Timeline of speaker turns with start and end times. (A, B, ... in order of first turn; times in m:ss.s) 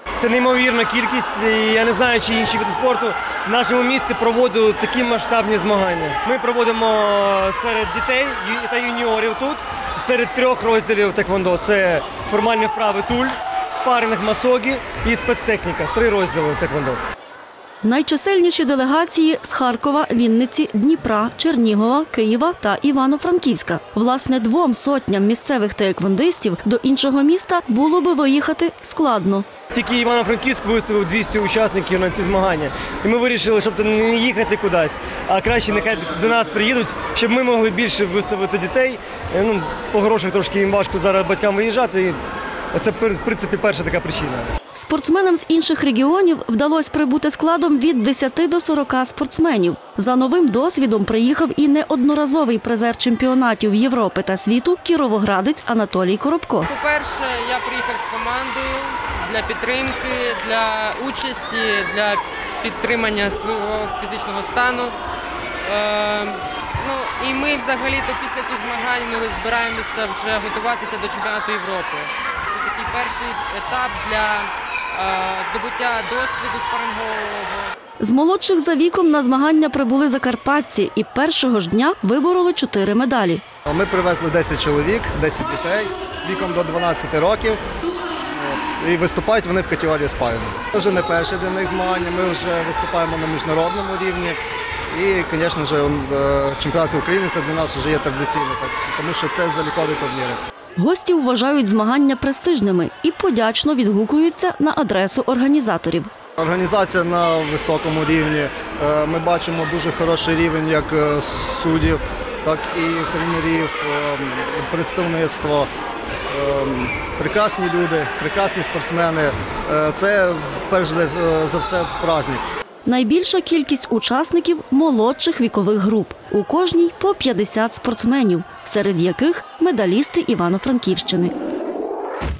0:00.2-0:17.0 A
0:17.8-0:29.5 B
0:29.7-0:42.2 A
0:42.7-0:44.5 A
0:44.7-0:56.7 B
0:56.7-1:04.9 C
1:05.6-1:17.7 C
1:18.0-1:23.4 B
1:23.7-1:27.6 D
1:28.3-1:34.4 D
1:34.9-1:40.4 D
1:40.8-1:46.1 B
1:46.4-1:55.7 D
1:56.3-2:02.4 D
2:02.8-2:11.3 B